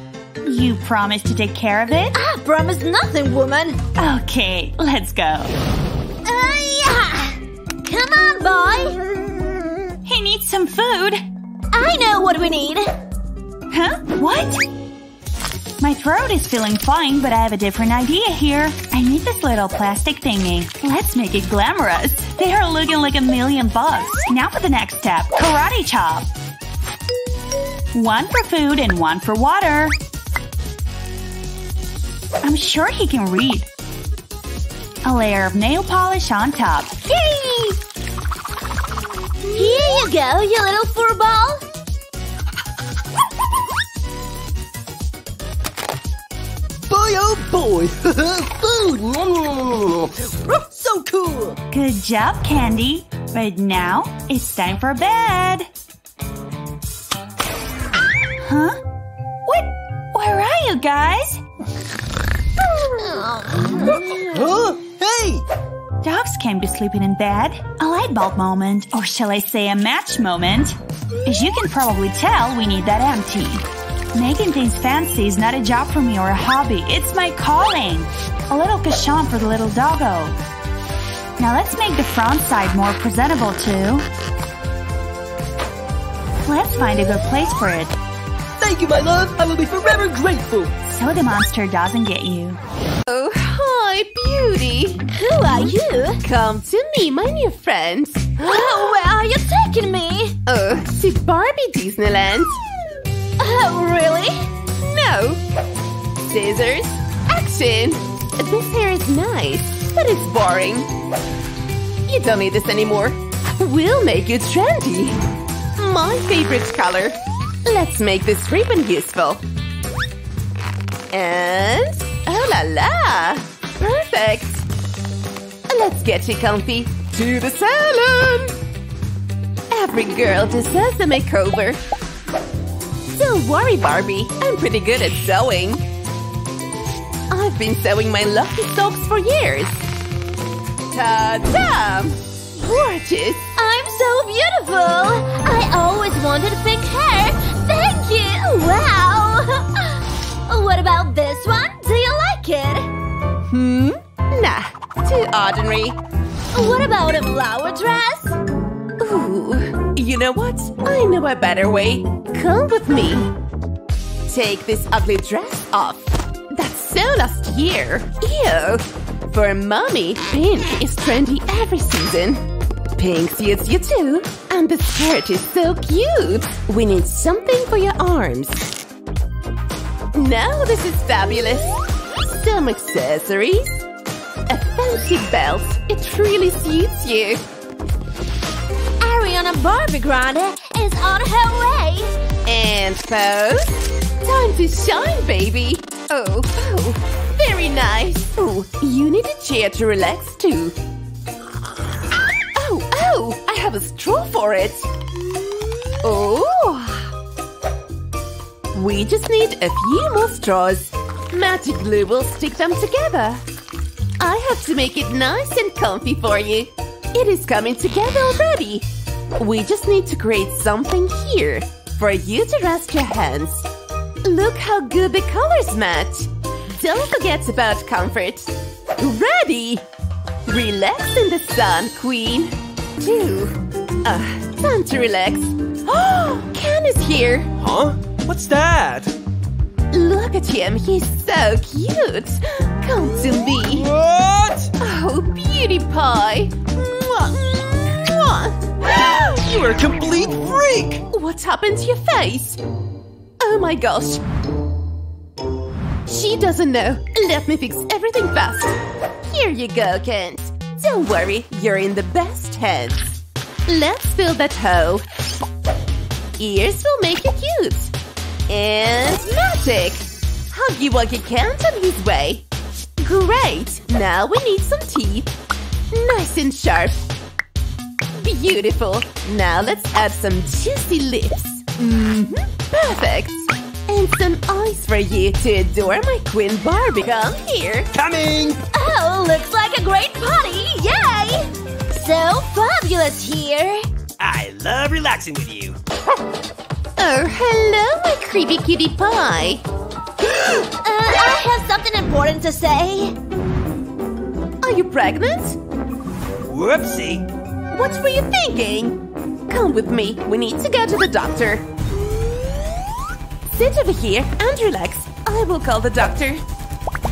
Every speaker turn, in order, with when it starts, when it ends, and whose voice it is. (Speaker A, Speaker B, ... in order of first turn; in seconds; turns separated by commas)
Speaker A: 0.4-2.2, Speaker B: 2.1-3.8, Speaker A: 4.0-5.5, Speaker B: 6.2-9.0, Speaker A: 10.1-11.2, Speaker B: 11.7-12.9, Speaker A: 13.7-14.6, Speaker A: 15.8-26.3, Speaker A: 27.9-29.9, Speaker A: 32.4-33.7, Speaker A: 35.0-37.0, Speaker B: 37.1-37.8, Speaker C: 39.4-40.1, Speaker B: 39.5-41.6, Speaker D: 46.9-51.6, Speaker A: 51.7-55.7, Speaker A: 58.4-58.8, Speaker A: 59.5-61.4, Speaker B: 63.1-64.3, Speaker D: 63.7-65.4, Speaker A: 66.0-80.3, Speaker A: 81.4-84.1, Speaker A: 86.5-87.9, Speaker D: 88.6-90.7, Speaker A: 90.8-92.6, Speaker C: 93.1-95.1, Speaker B: 95.1-96.2, Speaker C: 96.2-98.7, Speaker B: 98.4-100.4, Speaker C: 100.5-102.6, Speaker B: 103.4-104.5, Speaker C: 104.8-105.4, Speaker C: 106.2-110.9, Speaker C: 112.1-115.2, Speaker C: 115.8-119.4, Speaker C: 121.1-124.7, Speaker C: 125.7-128.6, Speaker C: 129.7-131.8, Speaker C: 133.1-135.9, Speaker C: 137.3-139.9, Speaker C: 140.9-143.5, Speaker B: 143.6-152.9, Speaker C: 153.5-156.0, Speaker B: 156.5-158.4, Speaker C: 159.0-163.3, Speaker C: 164.3-178.7, Speaker C: 180.1-183.8, Speaker C: 184.5-187.4, Speaker B: 189.0-192.2, Speaker C: 192.4-200.8, Speaker C: 202.5-205.0, Speaker C: 205.9-207.1, Speaker C: 208.7-213.4, Speaker C: 214.2-223.7, Speaker C: 224.2-229.9, Speaker C: 230.4-237.5, Speaker D: 237.6-239.1, Speaker C: 239.9-243.9, Speaker D: 243.7-244.7, Speaker C: 244.8-248.7, Speaker D: 248.9-251.0, Speaker C: 251.1-252.6, Speaker C: 253.4-254.2, Speaker C: 256.1-265.1, Speaker C: 266.4-267.9, Speaker C: 268.5-272.5, Speaker C: 273.0-275.4, Speaker C: 275.9-277.1, Speaker C: 278.1-287.9, Speaker D: 287.9-288.6, Speaker B: 288.7-293.9, Speaker D: 294.2-295.8, Speaker C: 297.0-299.6, Speaker B: 300.5-303.1, Speaker C: 304.6-305.6, Speaker D: 306.5-307.3, Speaker C: 307.7-311.7, Speaker C: 313.4-316.4